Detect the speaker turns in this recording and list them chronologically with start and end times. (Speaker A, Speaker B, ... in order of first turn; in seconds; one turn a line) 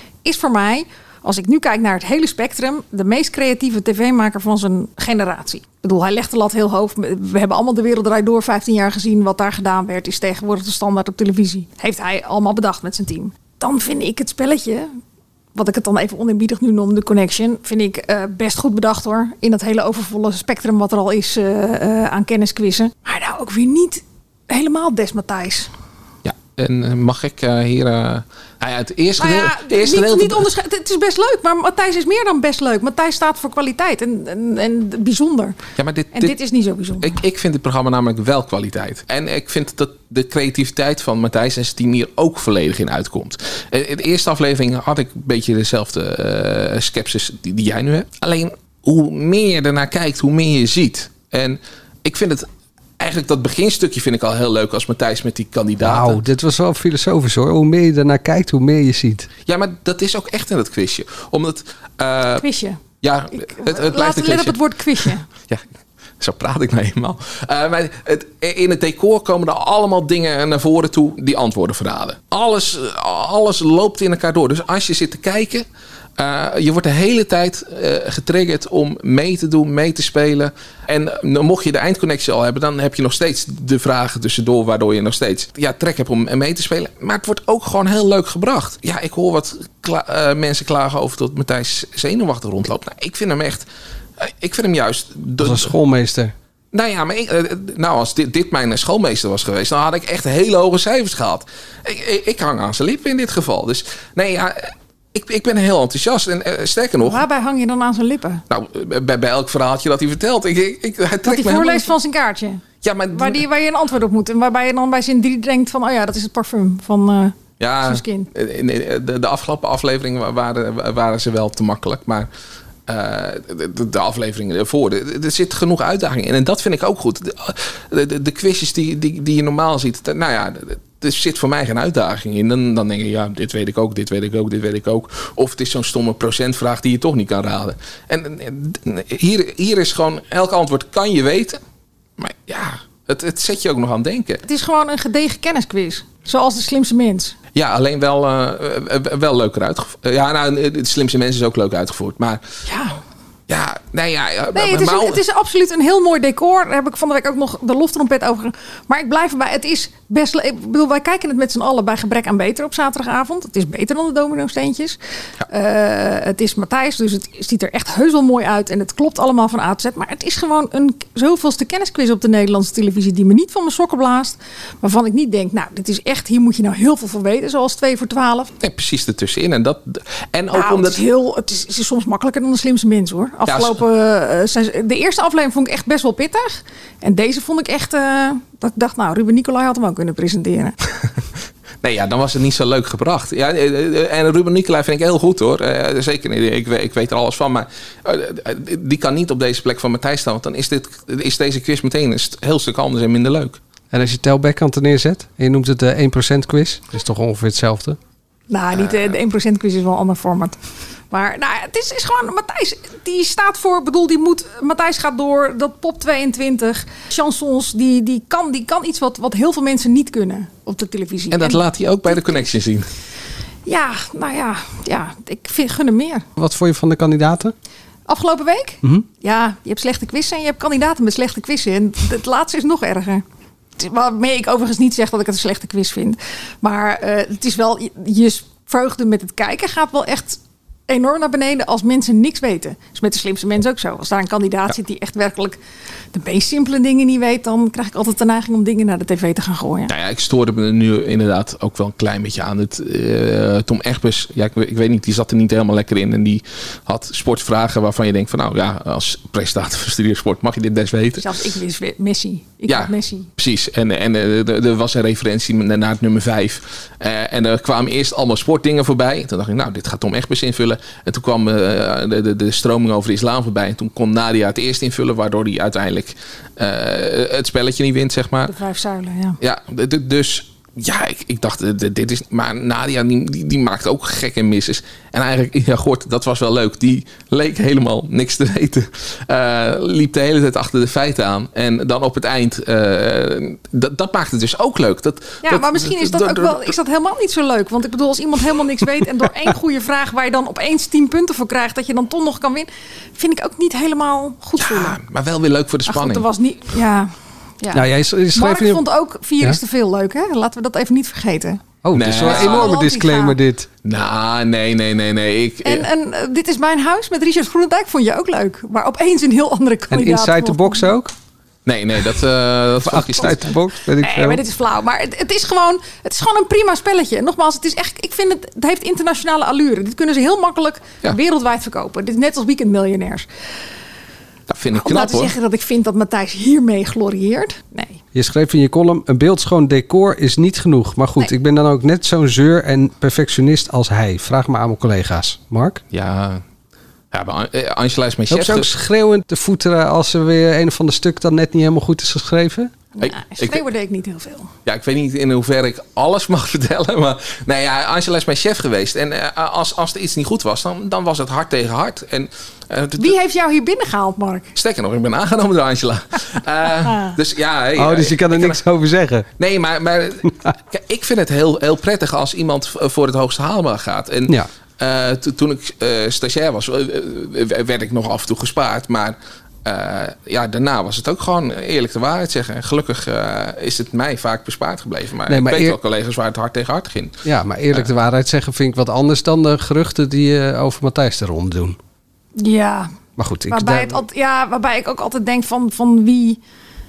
Speaker A: 0.2-14.9
Speaker A: 15.5-25.7
Speaker B: 26.2-30.5
Speaker A: 29.2-35.6
Speaker B: 35.8-36.4
Speaker A: 36.1-37.2
Speaker B: 37.0-52.5
Speaker B: 53.0-56.2
Speaker C: 55.8-59.3
Speaker B: 59.5-62.4
Speaker A: 62.3-62.8
Speaker B: 63.0-65.6
Speaker A: 63.3-65.2
Speaker B: 66.2-75.7
Speaker B: 76.2-93.7
Speaker B: 94.2-95.7
Speaker C: 95.4-96.3
Speaker B: 96.7-107.2
Speaker A: 107.0-108.4
Speaker B: 108.5-111.9
Speaker A: 111.2-118.3
Speaker B: 112.8-113.4
Speaker B: 117.6-122.3
Speaker B: 122.9-141.6
Speaker B: 142.2-144.4
Speaker A: 144.4-147.3
Speaker B: 147.5-152.4
Speaker A: 152.7-153.0
Speaker B: 153.5-155.2
Speaker A: 154.5-165.0
Speaker A: 165.5-178.5
Speaker B: 178.6-181.0
Speaker A: 180.5-190.8
Speaker B: 183.5-183.8
Speaker B: 191.8-203.6
Speaker C: 203.9-208.0
Speaker A: 208.5-210.6
Speaker A: 211.1-222.5
Speaker B: 221.3-222.9
Speaker A: 223.7-226.2
Speaker C: 226.4-227.5
Speaker A: 228.1-233.2
Speaker A: 233.8-245.6
Speaker A: 246.1-249.9
Speaker B: 249.9-261.3
Speaker A: 261.2-263.3
Speaker B: 262.7-278.5
Speaker A: 278.4-279.4
Speaker B: 279.4-296.7
Speaker A: 295.4-304.9
Speaker B: 304.6-306.3
Speaker A: 305.9-311.6
Speaker C: 307.7-308.8
Speaker C: 311.8-313.7
Speaker B: 311.9-312.8
Speaker A: 312.2-313.4
Speaker B: 313.8-315.9
Speaker A: 315.6-320.9
Speaker C: 319.9-321.1
Speaker B: 321.6-323.5
Speaker C: 322.8-324.4
Speaker A: 324.0-333.2
Speaker B: 334.5-335.3
Speaker A: 334.7-338.0
Speaker C: 338.1-345.8
Speaker B: 345.9-346.4
Speaker B: 347.1-348.7
Speaker C: 348.3-352.7
Speaker A: 352.9-354.5
Speaker B: 353.0-353.6
Speaker B: 354.6-363.1
Speaker A: 363.0-364.5
Speaker B: 364.5-368.6
Speaker A: 366.9-367.1
Speaker C: 367.8-369.2
Speaker B: 369.4-387.2
Speaker C: 385.3-385.8
Speaker C: 387.2-391.8
Speaker A: 392.4-392.9
Speaker C: 393.2-394.0
Speaker A: 393.5-396.4